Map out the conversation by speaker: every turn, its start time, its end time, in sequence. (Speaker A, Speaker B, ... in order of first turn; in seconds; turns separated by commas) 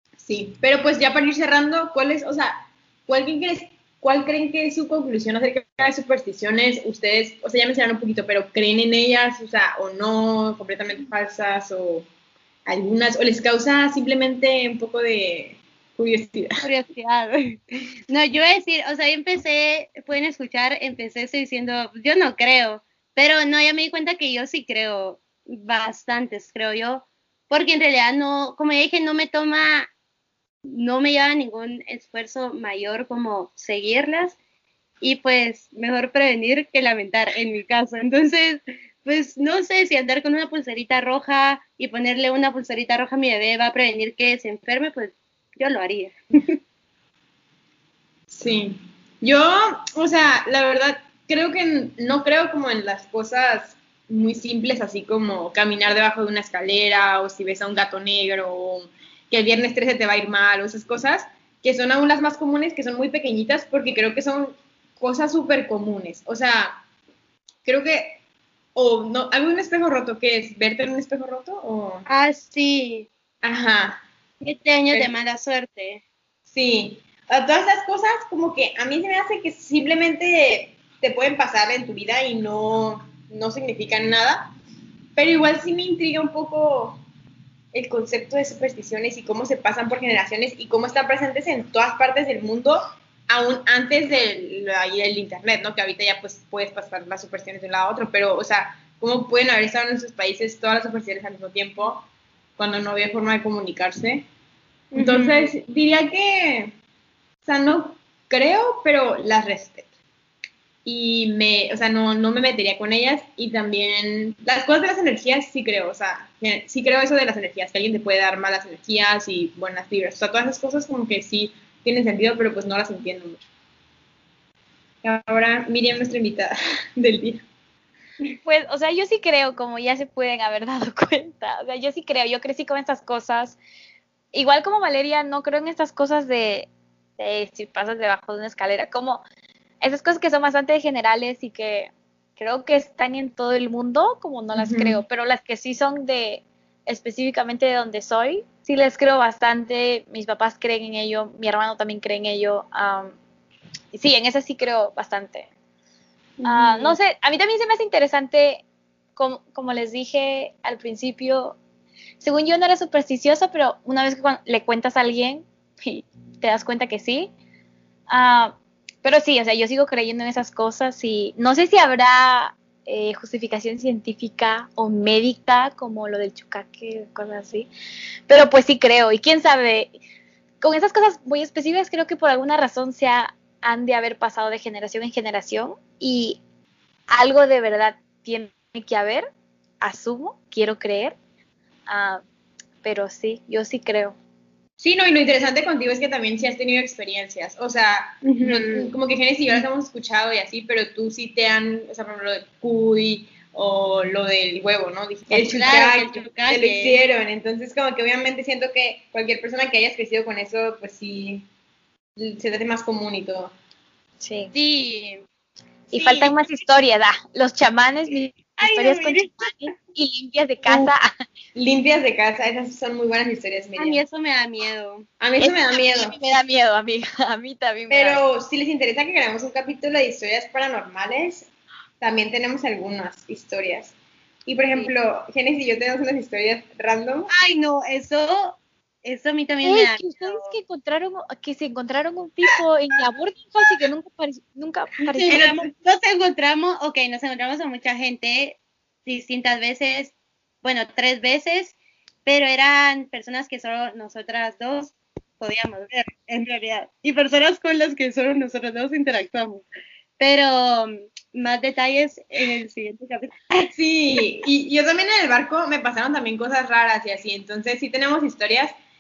Speaker A: 0.2-12.1, Speaker A: 12.7-16.6, Speaker B: 16.6-29.9, Speaker B: 30.7-34.4, Speaker B: 35.0-46.1, Speaker A: 48.3-66.8, Speaker A: 67.7-68.2, Speaker A: 68.8-72.0, Speaker B: 72.1-73.1, Speaker A: 73.4-74.0, Speaker B: 74.4-76.0, Speaker A: 76.5-84.5, Speaker A: 85.2-87.0, Speaker A: 87.7-104.3, Speaker B: 104.9-105.5, Speaker A: 105.0-106.8, Speaker A: 107.4-109.9, Speaker A: 110.8-123.4, Speaker A: 125.0-127.5, Speaker C: 128.5-133.6, Speaker C: 134.3-139.2, Speaker C: 139.8-153.2, Speaker A: 144.6-145.0, Speaker C: 153.9-155.5, Speaker B: 156.4-157.0, Speaker C: 156.4-158.6, Speaker C: 159.2-161.6, Speaker C: 162.2-167.3, Speaker C: 168.1-177.7, Speaker C: 178.3-179.9, Speaker C: 180.6-186.4, Speaker C: 187.1-189.3, Speaker C: 189.8-191.2, Speaker C: 191.9-192.2, Speaker C: 192.8-194.2, Speaker A: 194.8-211.5, Speaker B: 198.2-198.9, Speaker C: 205.3-205.6, Speaker B: 205.4-207.0, Speaker A: 212.2-213.5, Speaker C: 214.2-214.5, Speaker B: 214.5-215.2, Speaker B: 215.9-216.3, Speaker C: 215.9-221.1, Speaker B: 218.6-219.6, Speaker A: 221.6-224.0, Speaker B: 223.8-225.1, Speaker A: 225.2-226.2, Speaker C: 225.4-228.2, Speaker A: 227.9-231.5, Speaker A: 232.0-237.3, Speaker B: 237.3-240.6, Speaker C: 239.6-245.7, Speaker B: 245.2-259.6, Speaker B: 260.2-263.7, Speaker A: 263.7-268.7